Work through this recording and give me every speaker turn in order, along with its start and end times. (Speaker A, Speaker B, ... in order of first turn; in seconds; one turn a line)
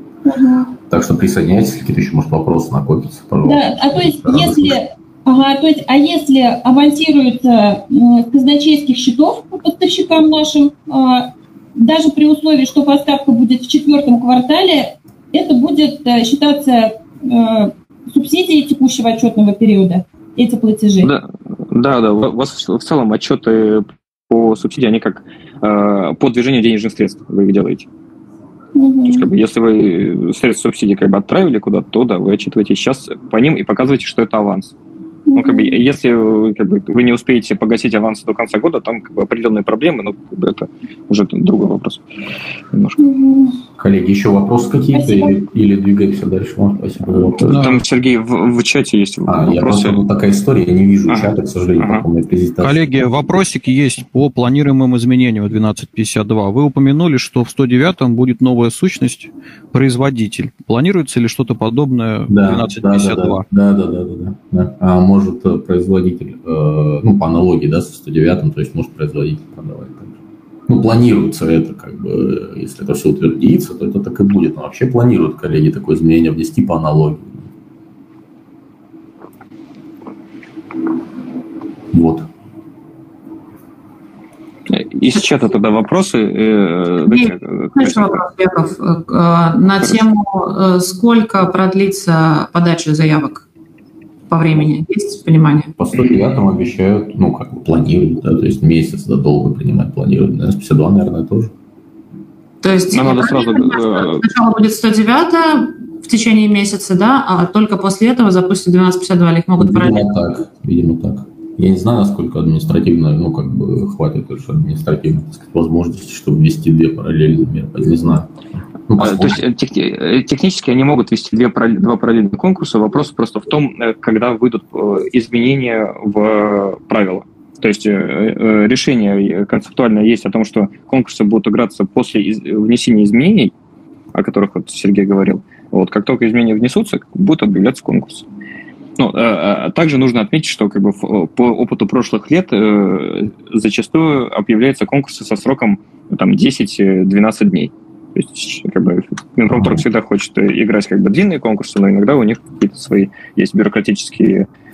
Speaker A: 0.2-0.7
Speaker B: 0.9-4.8
Speaker A: 3.4-21.1
Speaker C: 21.0-27.9
Speaker A: 28.8-29.3
Speaker C: 29.0-34.7
Speaker A: 35.3-35.8
Speaker C: 35.3-42.0
Speaker C: 42.7-43.0
Speaker A: 43.0-43.6
Speaker B: 43.8-47.7
Speaker A: 44.9-45.4
Speaker D: 47.4-47.8
Speaker C: 47.4-50.0
Speaker B: 49.3-53.2
Speaker C: 51.1-52.0
Speaker D: 52.6-63.5
Speaker B: 62.3-70.1
Speaker B: 70.7-77.4
Speaker B: 81.9-82.3
Speaker C: 84.7-88.2
Speaker E: 87.0-93.4
Speaker E: 94.3-95.7
Speaker B: 95.8-101.5
Speaker E: 102.6-110.1
Speaker C: 102.9-104.2
Speaker B: 109.6-118.3
Speaker B: 118.9-119.4
Speaker C: 119.0-133.5
Speaker C: 134.1-138.2
Speaker C: 139.0-154.5
Speaker B: 149.5-149.8